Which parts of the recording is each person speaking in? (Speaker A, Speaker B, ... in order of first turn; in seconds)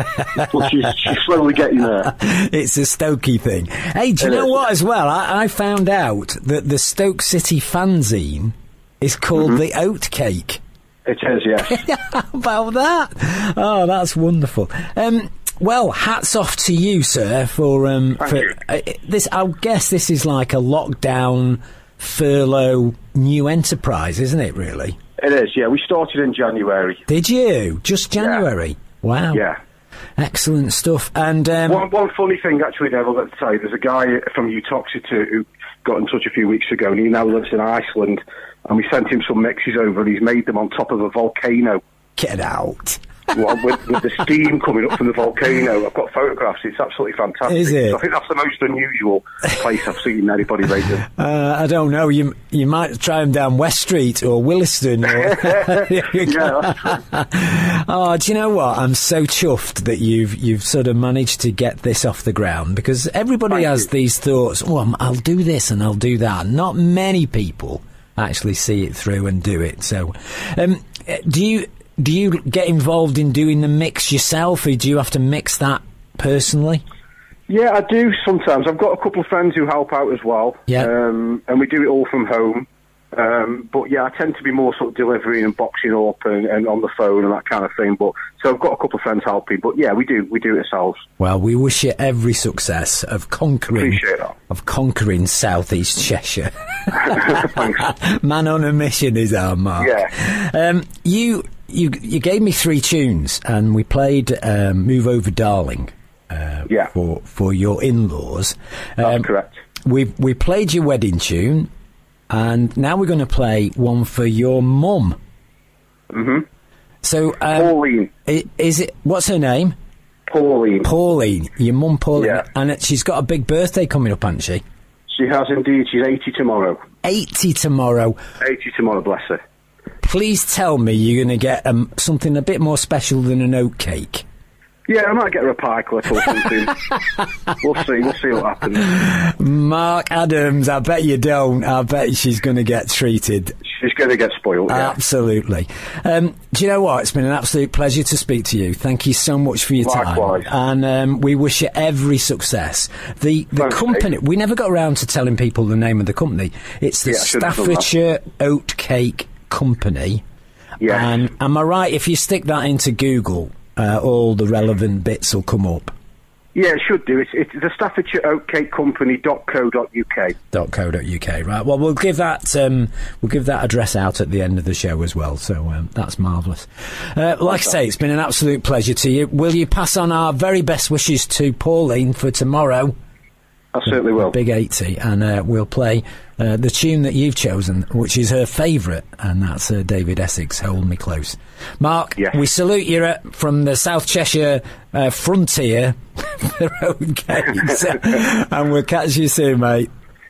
Speaker A: 0.4-2.1, 4.2-4.6, 11.1-11.7, 25.2-27.0, 28.2-28.4, 31.7-41.8, 43.3-51.1, 56.2-56.8, 77.5-91.0, 93.7-94.3, 97.2-97.5, 99.8-100.1, 109.0-109.6, 116.1-116.5, 117.5-118.1, 120.3-120.9, 122.2-122.4, 125.1-126.8, 128.4-129.4, 134.9-136.8, 137.6-138.9, 143.6-144.9, 149.8-150.5, 153.6-154.0, 157.1-157.9, 160.8-161.1, 166.5-170.3, 183.7-184.3
Speaker B: 2.0-10.6, 11.7-24.9, 27.1-29.4, 30.2-31.9, 42.2-43.0, 47.5-48.0, 51.1-76.8, 91.2-109.2, 109.8-111.7, 112.3-115.2, 117.0-117.7, 118.3-119.7, 120.8-124.6, 127.0-128.2, 130.0-134.2, 138.8-143.5, 144.7-160.2, 160.8-165.9, 170.5-182.9, 184.2-199.9